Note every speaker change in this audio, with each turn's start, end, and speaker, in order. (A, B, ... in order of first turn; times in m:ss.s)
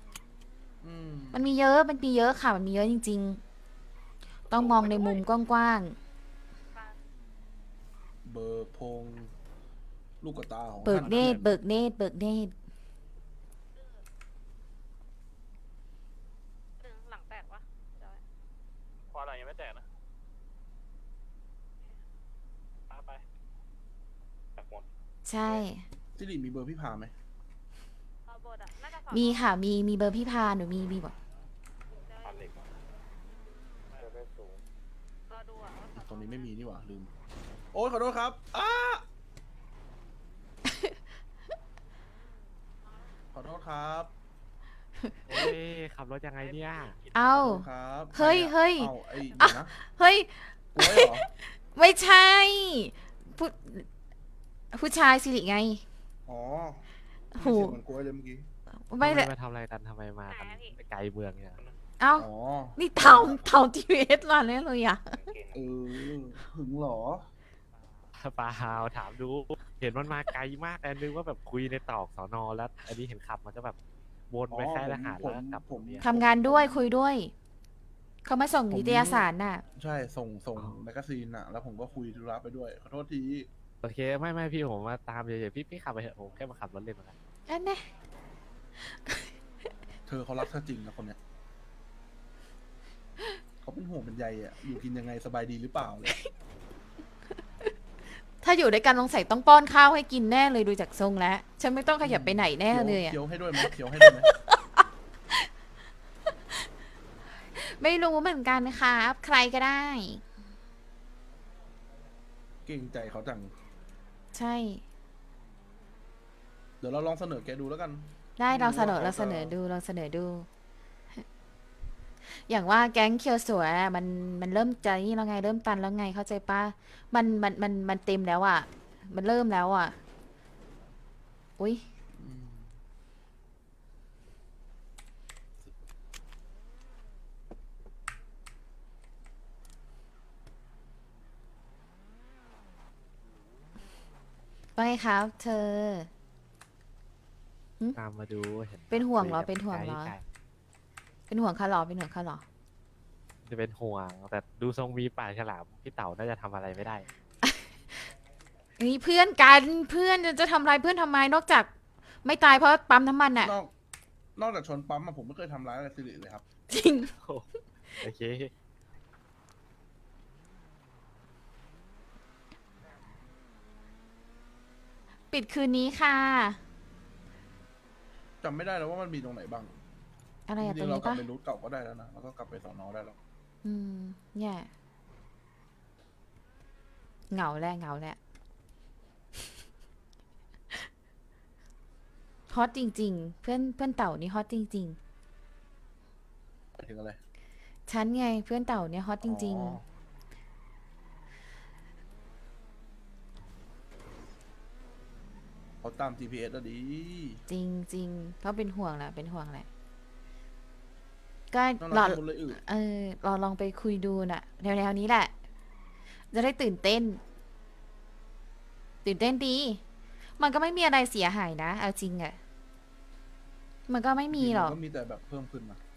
0:00.8-0:01.5 A
0:01.3-0:03.4 B
0:04.5-0:06.0 B
0:04.5-0:04.9 C
0:04.6-0:05.2 D
0:06.7-0:07.0 D
0:08.2-0:09.3 A
0:10.2-0:11.6 A
0:10.8-0:12.5 B
0:11.0-0:11.5 E
0:13.7-0:14.0 D
0:16.8-0:18.2 D
0:19.1-0:19.8 F
0:22.9-0:23.2 F
0:24.5-0:24.9 C
0:25.2-0:25.8 B
0:26.2-0:27.1 A
0:28.2-0:29.6 D
0:29.1-0:31.1 B
0:31.9-0:32.6 D
0:32.2-0:32.6 C
0:34.0-0:34.6 C
0:35.3-0:36.5 D
0:36.0-0:37.1 A
0:37.7-0:39.0 A
0:40.7-0:40.9 B
0:42.8-0:43.1 D
0:43.3-0:44.1 A
0:45.0-0:45.5 B
0:45.3-0:47.0 E
0:46.4-0:47.5 F
0:47.1-0:53.8 B
0:47.3-0:49.7 A
0:49.3-0:49.5 D
0:50.7-0:51.2 A
0:54.7-0:55.8 B
0:56.3-0:56.8 A
0:57.4-0:57.8 B
0:57.4-0:58.5 A
0:58.9-0:59.3 B
0:59.0-1:01.6 E
1:00.3-1:00.8 D
1:02.0-1:05.2 B
1:02.2-1:03.5 A
1:05.1-1:05.6 C
1:05.5-1:07.3 A
1:08.1-1:13.8 E
1:14.3-1:16.0 E
1:14.5-1:16.8 A
1:16.0-1:17.3 B
1:18.2-1:19.6 B
1:18.7-1:23.5 A
1:23.8-1:27.2 E
1:27.5-1:27.8 B
1:30.1-1:31.2 A
1:33.6-1:36.2 A
1:38.4-1:44.6 B
1:42.0-1:44.3 A
1:47.6-1:50.2 B
1:52.6-1:53.5 A
1:54.3-1:54.8 B
1:56.8-1:59.6 A
1:58.4-2:00.5 B
2:02.4-2:10.0 B
2:12.1-2:12.7 A
2:24.8-2:26.1 B
2:28.0-2:30.2 E
2:28.9-2:30.2 B
2:31.3-2:32.4 B
2:33.5-2:37.1 E
2:38.8-2:41.7 B
2:42.2-2:43.5 B
2:43.4-2:43.7 A
2:44.4-2:46.4 A
2:46.7-2:47.1 B
2:48.0-2:48.5 E
2:55.3-2:56.6 B
2:58.4-2:59.7 A
3:00.5-3:01.2 B
3:00.6-3:03.2 A
3:03.6-3:04.7 B
3:07.3-3:08.2 B
3:12.5-3:15.0 B
3:16.8-3:17.2 A
3:17.9-3:19.8 B
3:19.2-3:19.8 A
3:25.8-3:27.4 A
3:27.5-3:29.6 B
3:31.5-3:35.3 B
3:31.8-3:32.6 A
3:36.3-3:37.2 B
3:39.0-3:39.8 B
3:40.4-3:42.4 B
3:43.9-3:44.8 B
3:44.3-3:45.8 A